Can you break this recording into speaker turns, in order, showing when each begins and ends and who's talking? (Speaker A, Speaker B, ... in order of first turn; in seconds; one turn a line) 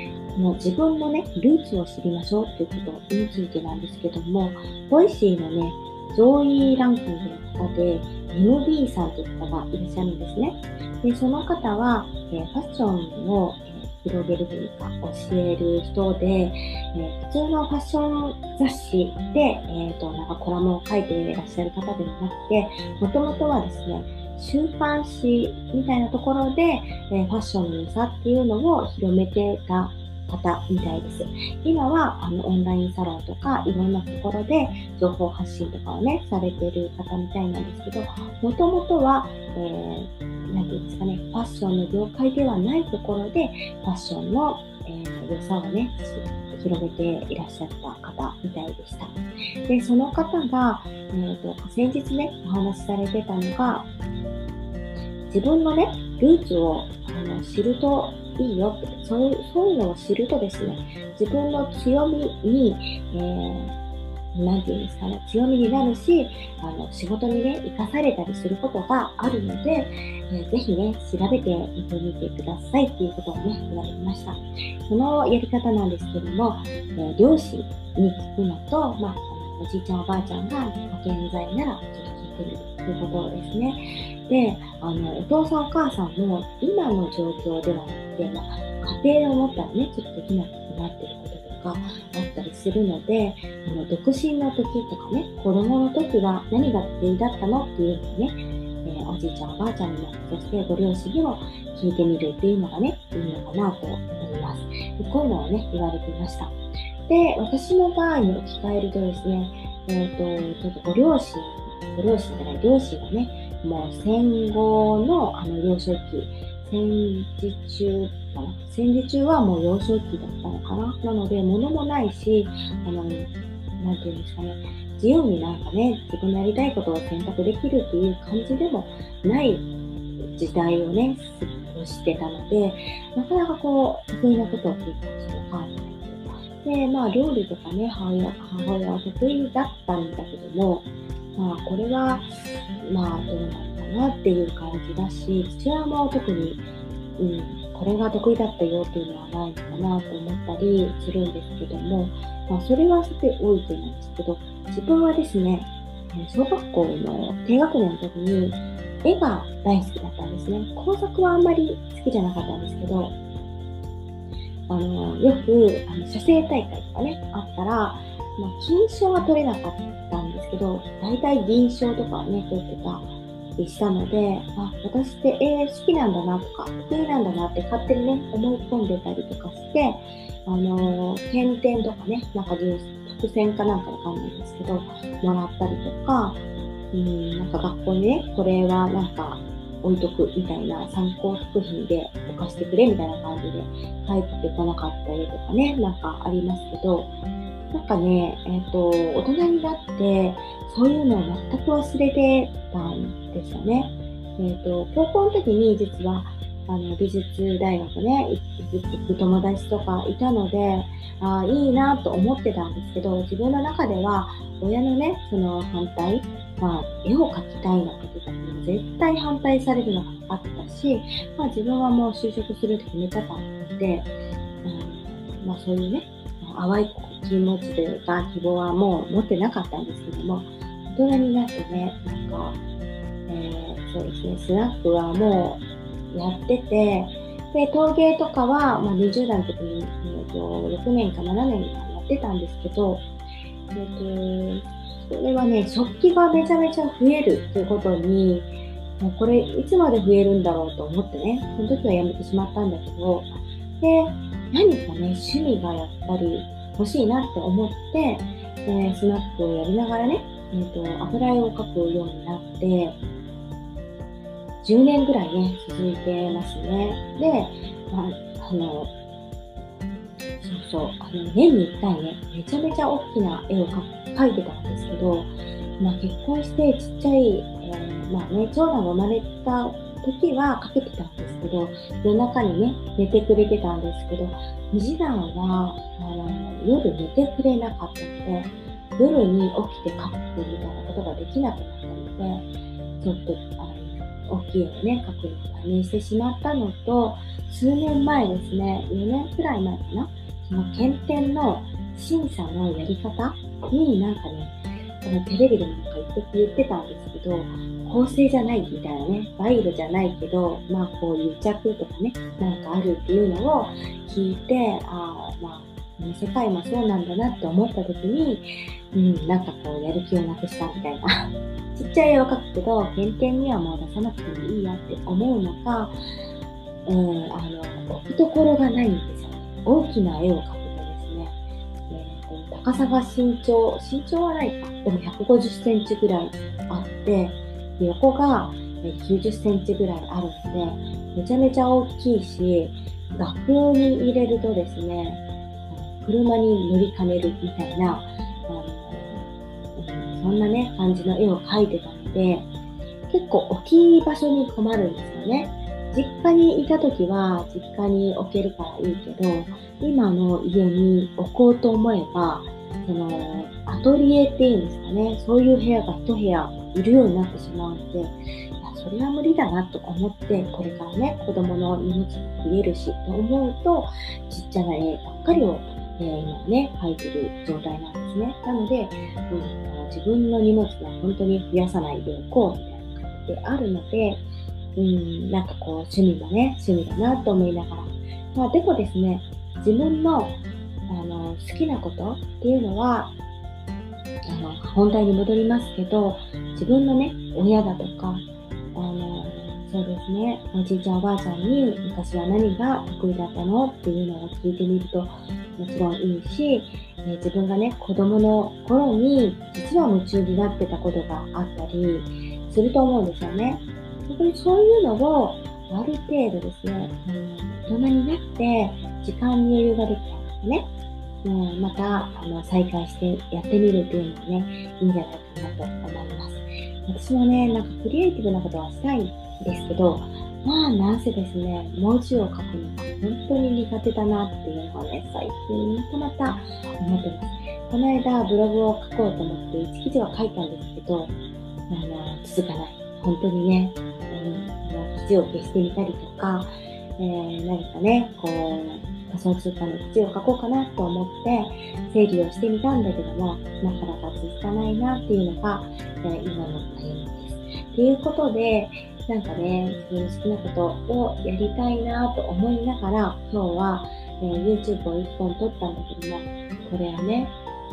Speaker A: 0.3-53.9
Speaker A: 55.3-63.8
Speaker A: 64.3-106.5
Speaker A: 107.1-129.7
Speaker A: 130.3-142.3
Speaker A: 142.8-146.6
Speaker A: 147.2-163.2
Speaker A: 164.7-186.4
Speaker A: 186.9-197.1
Speaker A: 197.7-224.1
Speaker A: 224.6-232.6
Speaker A: 233.3-243.1
Speaker A: 243.7-263.0
Speaker A: 264.6-268.9
Speaker A: 270.4-292.4
Speaker A: 293.0-321.1
Speaker A: 321.8-326.0
Speaker A: 326.9-331.4
Speaker A: 331.9-352.5
Speaker A: 353.1-384.2
Speaker A: 384.8-393.1
Speaker A: 394.3-398.2
Speaker A: 398.8-420.7
Speaker A: 421.2-441.1
Speaker A: 441.7-467.3